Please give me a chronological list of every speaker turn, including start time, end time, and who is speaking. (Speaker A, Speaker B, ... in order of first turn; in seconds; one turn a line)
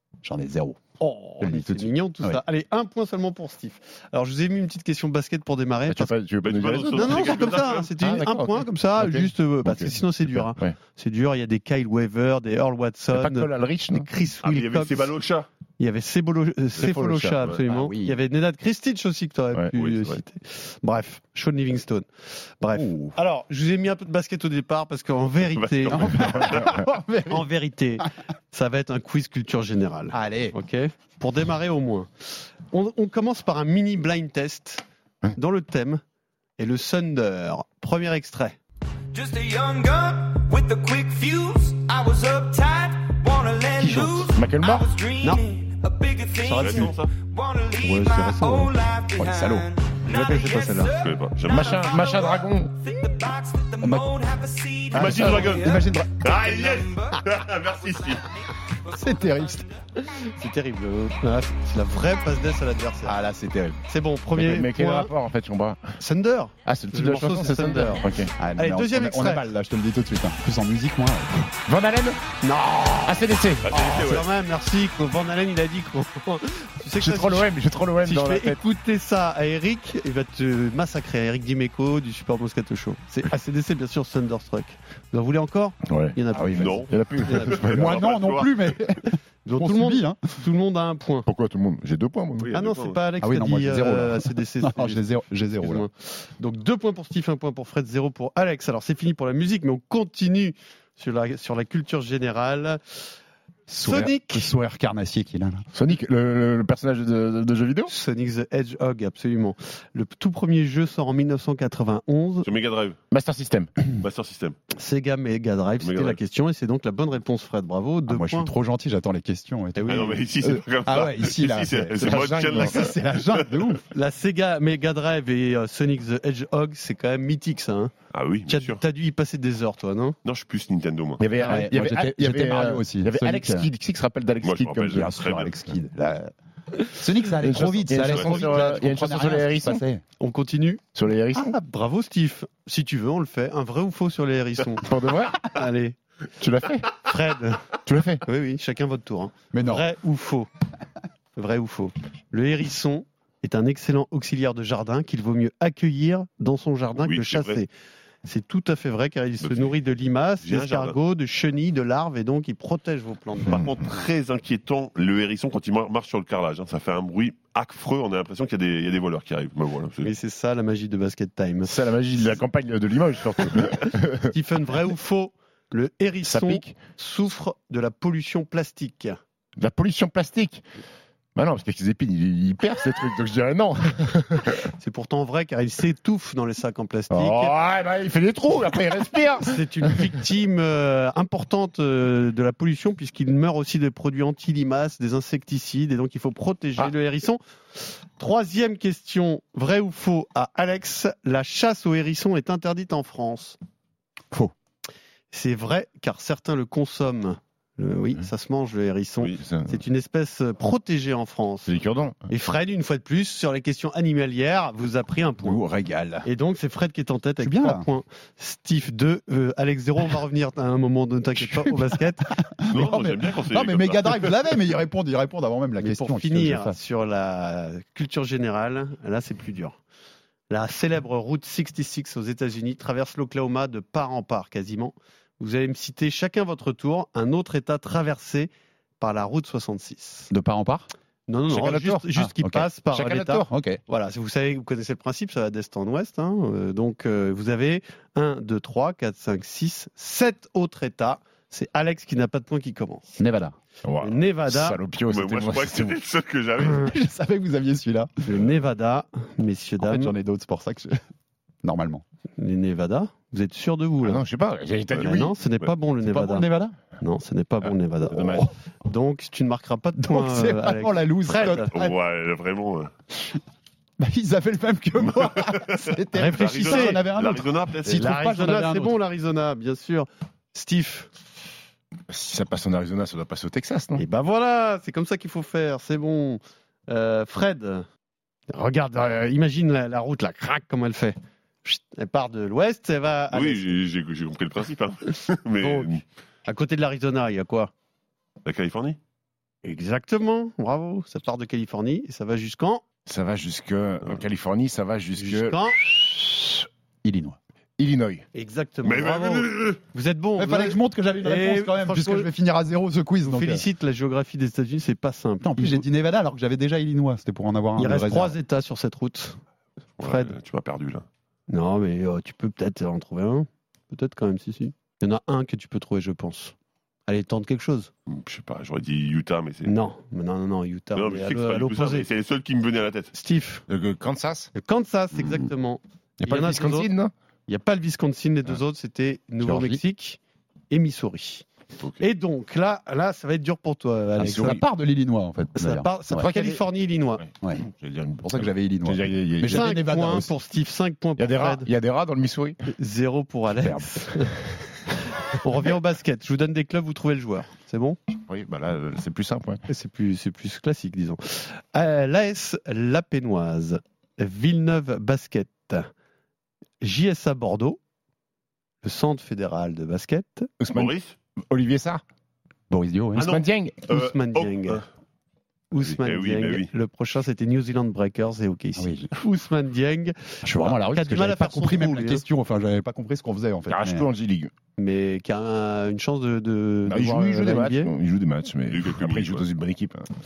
Speaker A: 0.2-0.8
Speaker B: 1.0-6.1
Speaker A: 1.4-2.4
Speaker C: 5.9-10.8
Speaker D: 6.4-7.9
Speaker B: 6.9-15.1
Speaker C: 13.1-14.1
Speaker D: 14.4-15.5
Speaker B: 15.8-22.1
Speaker C: 16.8-17.4
Speaker A: 17.7-18.2
Speaker D: 19.8-20.2
Speaker B: 22.6-26.7
Speaker D: 25.5-26.7
Speaker A: 25.9-27.4
Speaker C: 26.4-26.8
Speaker B: 27.3-34.8
Speaker A: 30.1-30.5
Speaker B: 35.3-36.0
Speaker B: 36.6-38.6
Speaker E: 39.1-59.8
Speaker A: 43.8-44.2
Speaker B: 43.8-44.1
Speaker C: 44.3-44.9
Speaker B: 46.4-47.0
Speaker D: 46.5-47.1
Speaker B: 47.8-48.8
Speaker A: 49.1-49.7
Speaker B: 50.0-50.9
Speaker D: 51.0-51.8
Speaker C: 51.4-52.7
Speaker A: 53.8-54.1
Speaker D: 54.9-58.2
Speaker A: 54.9-56.2
Speaker C: 55.0-55.3
Speaker A: 59.0-59.6
Speaker B: 60.0-63.2
Speaker A: 63.0-63.8
Speaker B: 63.9-65.1
Speaker C: 64.3-65.8
Speaker B: 66.0-69.5
Speaker C: 66.6-68.3
Speaker A: 68.4-71.5
Speaker C: 71.7-72.2
Speaker B: 72.4-73.2
Speaker C: 73.0-73.7
Speaker D: 73.6-74.2
Speaker B: 73.7-87.6
Speaker C: 77.0-78.6
Speaker C: 85.9-88.0
Speaker D: 86.6-88.5
Speaker A: 87.6-90.2
Speaker B: 89.4-91.3
Speaker C: 91.2-92.5
Speaker D: 92.4-93.0
Speaker B: 92.5-95.0
Speaker A: 93.2-95.9
Speaker B: 95.6-102.8
Speaker A: 103.7-105.7
Speaker B: 103.8-104.5
Speaker C: 105.7-107.9
Speaker B: 107.9-112.5
Speaker D: 112.4-113.0
Speaker C: 113.1-113.7
Speaker D: 113.9-114.6
Speaker B: 114.7-118.5
Speaker D: 115.8-116.2
Speaker A: 118.1-123.8
Speaker B: 119.8-120.2
Speaker D: 119.9-123.6
Speaker C: 122.0-122.7
Speaker B: 123.9-127.9
Speaker D: 128.1-128.8
Speaker B: 128.5-130.1
Speaker D: 130.2-131.2
Speaker C: 131.2-135.1
Speaker A: 131.4-133.7
Speaker D: 134.4-135.5
Speaker A: 134.9-136.3
Speaker A: 136.9-140.0
Speaker C: 137.4-139.8
Speaker D: 138.0-138.6
Speaker B: 140.2-140.8
Speaker C: 140.9-141.6
Speaker B: 141.3-144.9
Speaker C: 144.8-145.6
Speaker B: 145.5-146.0
Speaker C: 146.4-147.0
Speaker B: 147.0-147.6
Speaker C: 147.8-148.2
Speaker B: 148.2-150.5
Speaker A: 149.5-149.8
Speaker B: 151.3-157.7
Speaker D: 157.0-157.6
Speaker B: 158.2-163.6
Speaker D: 159.4-159.8
Speaker D: 160.4-160.9
Speaker D: 163.4-170.1
Speaker B: 170.0-171.7
Speaker C: 171.6-174.3
Speaker B: 174.3-179.2
Speaker C: 176.2-176.7
Speaker C: 179.6-180.6
Speaker C: 181.3-184.7
Speaker B: 184.8-187.6
Speaker C: 187.1-190.0
Speaker B: 189.4-197.4
Speaker B: 198.2-203.6
Speaker B: 205.3-211.7
Speaker C: 209.4-209.8
Speaker C: 211.7-212.2
Speaker B: 212.3-215.6
Speaker A: 215.4-216.3
Speaker B: 216.2-222.3
Speaker A: 217.4-217.9
Speaker A: 221.4-226.8
Speaker D: 222.7-224.4
Speaker B: 225.8-229.8
Speaker B: 230.5-240.3
Speaker A: 240.3-240.9
Speaker B: 241.3-253.2
Speaker C: 241.5-242.0
Speaker A: 242.2-242.7
Speaker C: 242.9-243.6
Speaker A: 243.5-243.8
Speaker A: 253.2-253.6
Speaker C: 253.8-256.0
Speaker B: 254.0-254.8
Speaker D: 255.1-256.9
Speaker A: 256.6-258.1
Speaker B: 258.2-260.1
Speaker A: 259.8-261.0
Speaker A: 261.6-262.0
Speaker B: 262.4-264.2
Speaker C: 264.0-265.7
Speaker B: 264.9-271.8
Speaker A: 266.0-266.8
Speaker C: 268.1-268.5
Speaker A: 270.0-271.7
Speaker D: 271.5-272.9
Speaker A: 274.0-279.0
Speaker D: 275.1-278.1
Speaker B: 276.1-277.0
Speaker B: 277.9-281.1
Speaker C: 282.1-284.0
Speaker B: 284.0-287.9
Speaker B: 288.5-293.8
Speaker D: 293.3-296.0
Speaker B: 295.6-297.7
Speaker D: 298.4-299.0
Speaker B: 299.6-302.8
Speaker C: 303.1-306.6
Speaker B: 305.2-305.8
Speaker A: 307.0-307.4
Speaker C: 307.8-308.2
Speaker B: 308.3-312.3
Speaker D: 308.8-309.8
Speaker A: 310.4-313.6
Speaker B: 313.2-315.8
Speaker A: 315.4-318.4
Speaker B: 317.8-319.4
Speaker B: 320.0-320.3
Speaker D: 320.0-321.1
Speaker B: 321.5-326.5
Speaker B: 327.1-327.9
Speaker D: 328.1-329.7
Speaker B: 329.6-332.1
Speaker D: 330.9-333.1
Speaker B: 333.1-333.6
Speaker C: 333.7-334.5
Speaker B: 334.5-336.9
Speaker C: 336.2-337.1
Speaker B: 337.5-340.2
Speaker A: 339.4-339.8
Speaker B: 340.7-341.4
Speaker B: 342.0-344.6
Speaker C: 344.2-344.6
Speaker A: 344.2-346.2
Speaker B: 345.5-347.2
Speaker C: 346.1-346.6
Speaker C: 347.2-349.6
Speaker A: 348.2-350.3
Speaker B: 349.4-351.7
Speaker C: 351.2-352.6
Speaker B: 352.7-354.3
Speaker A: 353.6-354.1
Speaker B: 355.3-358.0
Speaker C: 358.3-359.6
Speaker B: 359.7-365.9
Speaker B: 366.8-367.8
Speaker B: 368.8-370.5
Speaker C: 370.6-370.9
Speaker D: 370.7-371.1
Speaker C: 371.5-372.0
Speaker A: 372.7-373.4
Speaker C: 373.1-373.9
Speaker D: 373.1-374.8
Speaker B: 373.9-374.8
Speaker B: 375.7-382.2
Speaker D: 376.0-376.7
Speaker A: 378.8-379.1
Speaker A: 380.4-384.1
Speaker C: 383.7-384.5
Speaker B: 384.8-387.9
Speaker C: 386.9-390.1
Speaker D: 388.7-389.4